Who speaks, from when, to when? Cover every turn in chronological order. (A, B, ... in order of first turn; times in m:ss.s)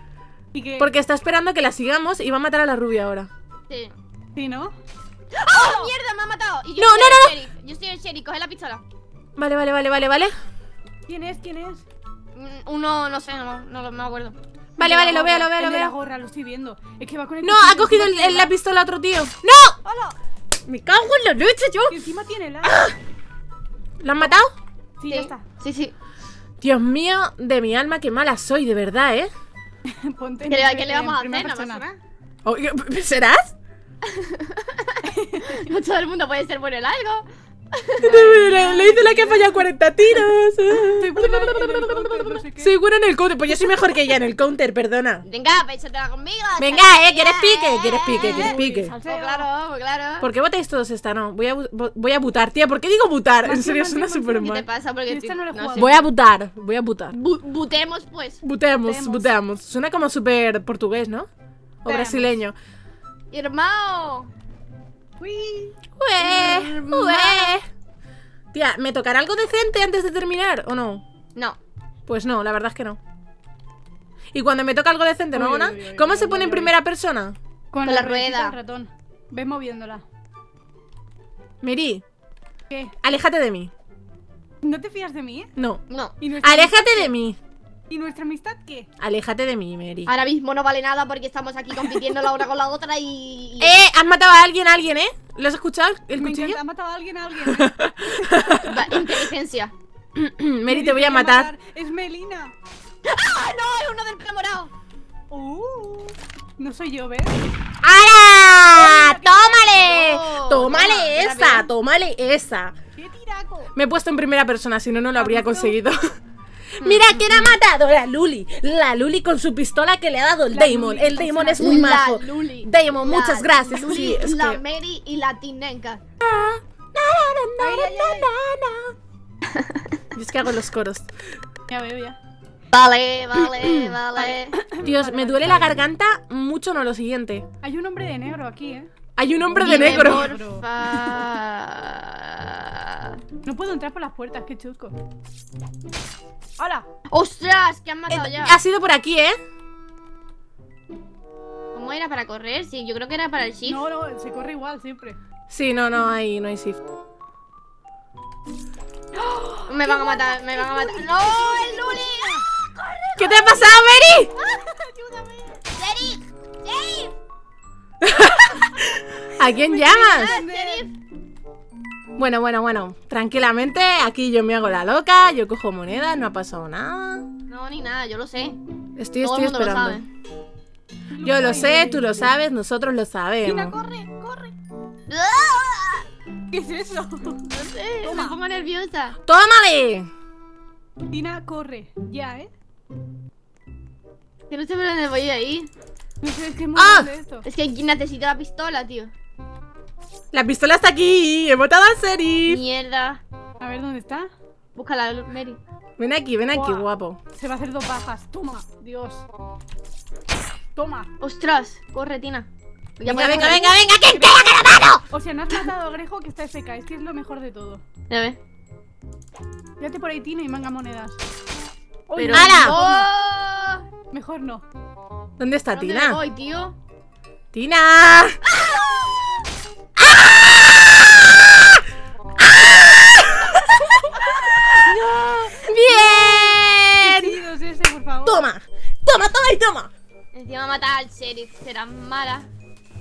0:00.5-0:00.9 A
0:00.8-0:03.3 B
0:04.4-0:04.8 A
0:05.3-0:08.8 C
0:06.8-0:07.4 B
0:09.4-0:10.3 B
0:11.1-0:11.9 A
0:12.4-0:15.5 C
0:14.8-0:16.0 B
0:14.8-0:18.5 A
0:17.4-0:19.8 B
0:19.8-0:20.2 A
0:20.7-0:22.0 B
0:21.9-0:22.8 A
0:22.6-0:23.0 B
0:24.0-0:24.5 B
0:25.0-0:25.5 A
0:25.1-0:25.9 C
0:26.6-0:29.3 B
0:29.9-0:31.8 A
0:30.5-0:32.0 C
0:32.4-0:33.5 B
0:34.0-0:38.4 C
0:35.0-0:35.7 A
0:38.0-0:45.2 B
0:38.0-0:39.7 A
0:40.9-0:42.8 A
0:45.2-0:50.3 C
0:46.6-0:49.0 B
0:48.1-0:49.5 A
0:50.2-0:54.7 B
0:53.4-0:54.5 A
0:54.4-0:56.0 C
0:55.1-0:56.0 A
0:55.8-0:57.2 B
0:57.1-0:58.4 C
0:58.4-1:01.3 B
0:58.7-0:59.3 A
1:01.8-1:02.6 B
1:01.9-1:02.4 A
1:03.3-1:04.3 C
1:05.2-1:05.8 A
1:06.0-1:07.6 B
1:06.2-1:07.6 C
1:08.5-1:11.0 B
1:12.1-1:13.0 B
1:14.3-1:17.4 B
1:15.3-1:16.8 A
1:17.7-1:20.0 A
1:17.8-1:18.6 C
1:21.6-1:22.0 B
1:23.0-1:23.7 B
1:24.6-1:25.5 A
1:25.6-1:25.8 B
1:25.9-1:26.1 C
1:26.2-1:27.1 A
1:26.4-1:27.4 B
1:27.9-1:28.9 A
1:29.0-1:30.1 B
1:30.1-1:33.8 C
1:33.6-1:36.6 B
1:36.2-1:38.6 A
1:37.4-1:39.2 B
1:38.6-1:39.7 C
1:40.2-1:41.5 B
1:40.7-1:42.6 A
1:43.0-1:44.7 C
1:45.3-1:47.4 A
1:47.8-1:52.8 B
1:48.7-1:49.8 A
1:49.7-1:51.7 C
1:53.0-1:53.7 A
1:53.8-1:56.0 B
1:55.2-1:55.8 A
1:56.8-1:57.6 C
1:56.8-2:04.6 B
2:00.5-2:02.0 A
2:01.6-2:06.0 C
2:06.2-2:09.0 B
2:07.6-2:08.3 A
2:09.5-2:09.8 C
2:10.1-2:11.1 B
2:11.7-2:12.2 A
2:12.7-2:14.7 C
2:14.2-2:15.8 A
2:14.8-2:17.5 B
2:17.6-2:18.9 A
2:19.2-2:20.3 B
2:19.5-2:21.2 A
2:19.6-2:23.2 C
2:23.4-2:25.0 A
2:26.6-2:26.9 A
2:27.1-2:28.6 C
2:28.1-2:29.4 B
2:31.7-2:33.8 C
2:33.6-2:35.2 A
2:35.5-2:36.8 B
2:39.2-2:43.0 A
2:39.7-2:42.4 C
2:43.2-2:44.3 B
2:43.2-2:44.7 C
2:44.4-2:45.7 A
2:45.7-2:47.1 C
2:48.0-2:50.4 B
2:49.5-2:50.9 A
2:50.0-2:50.9 C
2:52.2-2:57.3 B
2:57.5-2:58.6 C
2:59.0-3:00.1 B
2:59.2-3:00.1 C
3:01.1-3:02.2 A
3:01.2-3:03.8 B
3:03.4-3:04.6 A
3:05.1-3:06.1 C
3:06.5-3:07.5 A
3:07.5-3:09.2 C
3:08.0-3:08.4 A
3:09.2-3:10.1 B
3:11.1-3:12.5 A
3:14.5-3:15.7 C
3:16.2-3:17.5 A
3:16.8-3:17.1 B
3:17.4-3:19.1 C
3:20.3-3:22.6 B
3:22.5-3:23.2 C
3:23.6-3:24.3 A
3:24.8-3:25.6 C
3:26.0-3:27.2 B
3:26.5-3:29.3 A
3:30.8-3:31.1 A
3:31.2-3:32.5 C
3:33.0-3:34.9 C
3:33.0-3:35.0 B
3:35.1-3:37.8 A
3:38.1-3:38.4 C
3:39.8-3:41.2 A
3:42.1-3:43.1 A
3:42.2-3:43.9 C
3:42.3-3:42.8 B
3:44.1-3:44.6 A
3:45.4-3:46.2 B
3:45.7-3:46.8 C
3:47.5-3:48.4 B
3:50.0-3:51.7 B
3:52.4-3:57.4 B
3:55.5-3:58.4 A
3:58.2-3:59.9 B
4:00.3-4:02.5 C